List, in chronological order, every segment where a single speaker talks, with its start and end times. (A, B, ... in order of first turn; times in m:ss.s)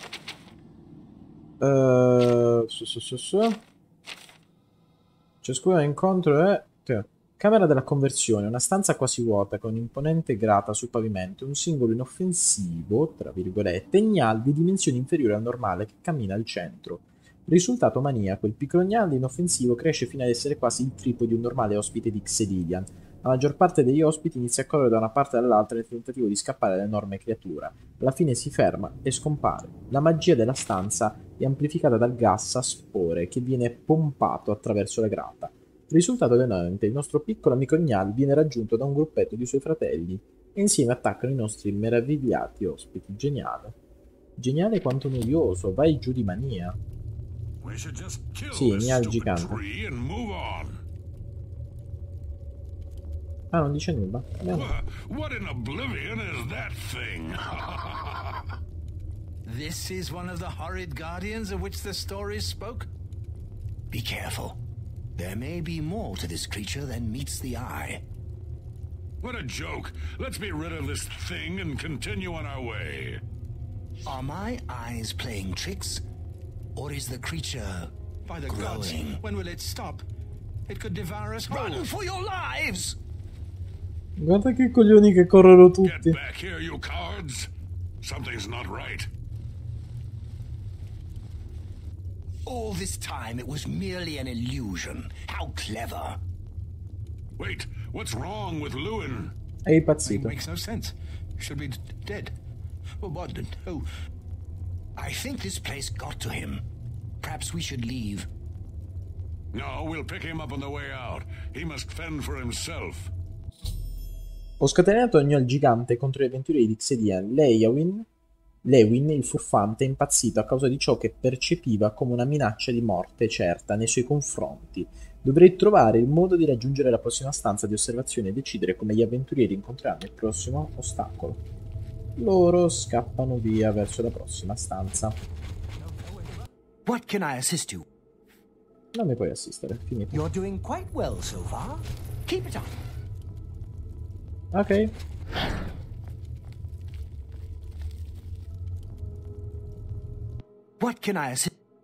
0:01.6-0:03.6 A
0:05.4-0:43.8 A
0:44.4-0:46.8 A
0:47.6-0:50.8 B
0:48.5-0:49.6 A
0:53.5-0:54.8 A
0:54.5-0:58.5 B
0:59.5-1:02.9 C
1:03.9-1:04.6 D
1:05.2-1:08.0 D
1:09.2-1:13.2 B
1:14.0-1:16.0 D
1:16.8-1:17.9 D
1:18.3-1:20.1 C
1:18.5-1:19.2 D
1:20.7-1:21.9 C
1:21.5-1:23.0 D
1:24.2-1:26.2 A
1:25.8-1:27.5 B
1:28.0-1:29.1 B
1:32.5-1:36.2 D
1:37.4-1:39.3 B
1:39.7-1:40.4 A
1:40.1-1:42.3 C
1:43.0-1:43.9 C
1:45.0-1:46.6 D
1:47.2-1:48.3 D
1:49.5-1:53.1 B
1:54.6-1:58.1 A
1:58.6-2:11.4 A
2:12.2-2:15.2 A
2:15.8-2:17.9 D
2:18.9-2:20.2 A
2:20.1-2:22.8 D
2:24.5-2:25.0 A
2:30.8-2:31.5 D